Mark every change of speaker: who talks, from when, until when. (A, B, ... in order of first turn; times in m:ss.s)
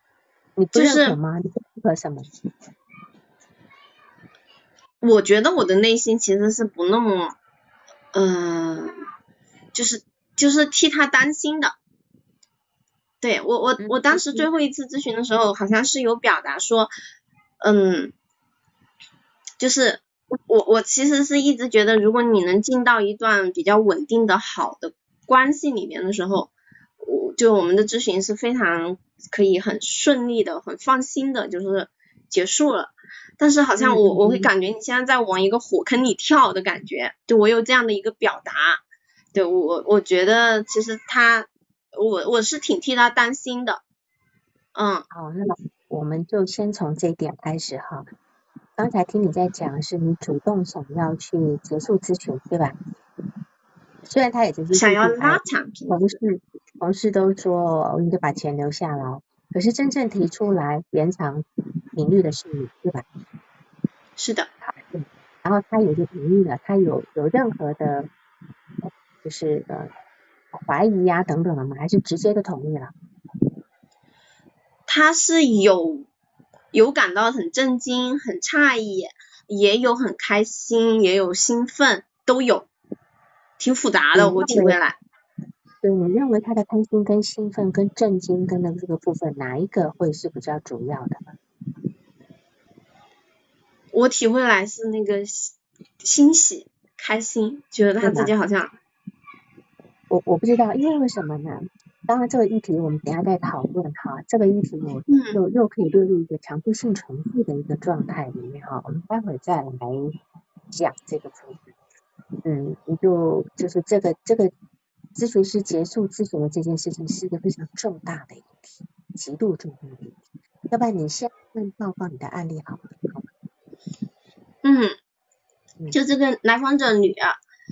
0:00.6-0:02.3 A
0:00.7-0:01.2 B
0:05.0-0:07.3 B
0:08.1-0:08.9 B
0:09.7-0:11.7 B
0:13.2-0:16.9 B
0:13.8-0:14.5 A
0:17.6-0:18.1 B
0:19.6-0:38.8 B
0:33.8-0:34.5 A
0:39.3-0:43.8 B
0:44.7-0:45.0 B
0:45.1-0:48.0 A
0:48.8-0:52.8 A
0:54.0-1:03.0 A
0:54.7-0:56.0 B
1:04.2-1:04.5 B
1:04.6-1:08.1 A
1:08.8-1:09.9 A
1:10.5-1:12.9 A
1:14.9-1:16.1 B
1:16.7-1:22.7 B
1:23.6-1:25.0 B
1:24.1-1:24.8 A
1:25.8-1:31.3 A
1:33.9-1:38.7 B
1:38.0-1:38.3 A
1:40.1-1:50.2 A
1:45.1-1:45.4 B
1:50.7-1:51.7 A
1:52.4-1:54.5 A
1:55.1-2:00.2 A
2:00.7-2:03.3 A
2:04.6-2:04.9 B
2:05.9-2:07.4 B